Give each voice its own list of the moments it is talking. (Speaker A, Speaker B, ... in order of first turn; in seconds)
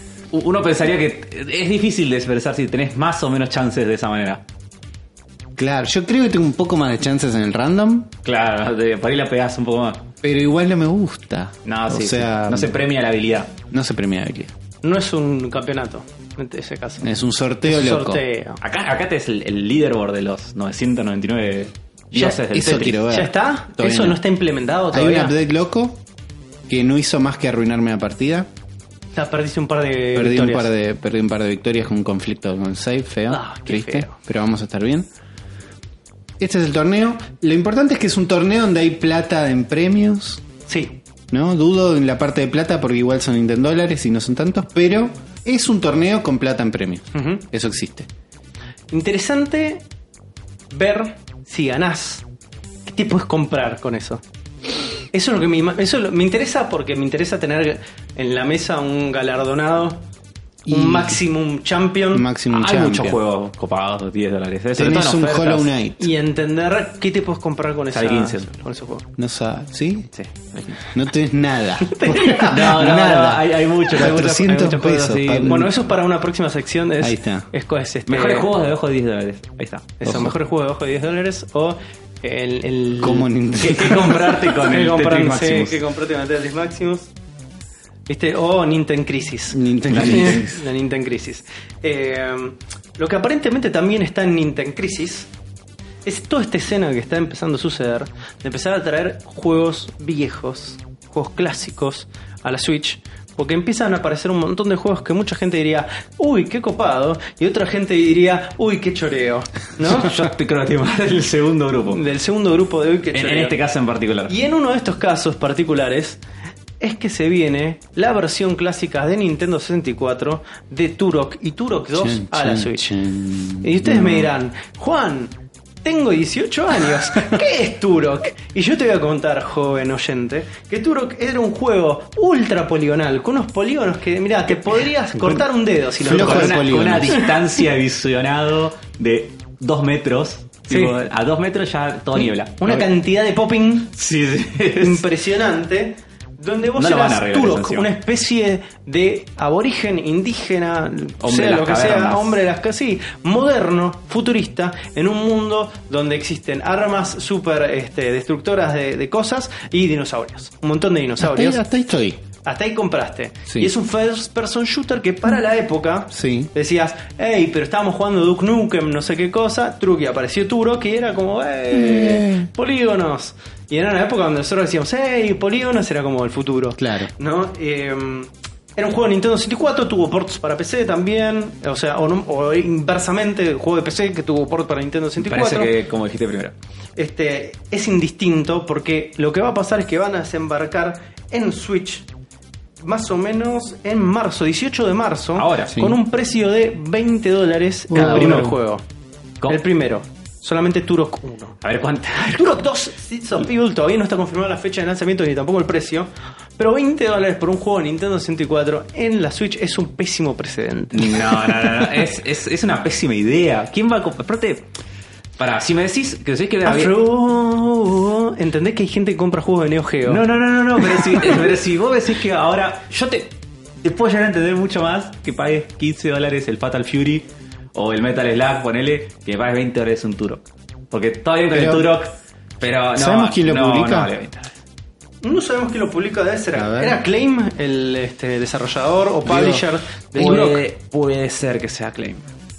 Speaker A: 0.3-4.4, 8.2-10.1, 11.7-13.5, 18.6-23.0, 62.5-65.7, 67.9-68.5, 70.1-70.8, 72.4-75.7, 78.1-79.9, 84.2-85.8, 90.0-90.3, 109.8-112.0, 113.1-114.3, 136.0-142.9, 143.9-145.1, 146.8-147.9, 151.2-152.3, 185.2-186.6, 195.4-195.8, 197.9-198.5, 201.6-202.7, 210.9-214.7, 215.4-217.0, 220.1-234.5, 240.2-242.3
Speaker B: 5.6-8.1, 10.2-12.8, 13.7-14.5, 17.0-18.2, 22.1-24.2, 24.9-26.0, 26.7-28.5, 30.1-35.1, 36.4-40.4, 41.3-48.1, 60.7-61.2, 62.1-63.2, 64.8-66.1, 69.2-70.1, 70.9-75.7, 77.0-77.5, 80.0-80.3, 83.0-84.3, 89.5-90.6, 122.0-124.3, 136.0-137.2, 161.2-162.2, 166.1-166.5, 171.7-172.5, 176.8-177.1, 195.7-196.0, 197.9-198.5, 231.5-231.9, 232.9-234.1, 236.6-237.0, 239.3-239.6
Speaker C: 14.8-17.1, 17.6-18.6, 23.1-25.4, 29.1-30.7, 33.3-34.1, 40.7-41.0, 47.1-47.4, 48.9-49.8, 50.7-52.3, 52.9-54.2, 55.1-60.1, 60.7-62.3, 66.0-69.1, 71.8-72.5, 74.0-78.5, 80.0-87.1, 88.1-95.3, 96.0-110.2, 111.9-113.6, 114.3-116.2, 116.8-122.9, 123.6-137.2, 140.7-140.9, 142.2-143.9, 144.8-161.6, 162.4-185.7, 187.0-192.1, 192.8-198.8, 199.5-201.6, 202.3-211.6, 216.7-220.2, 220.9-221.3, 235.2-240.6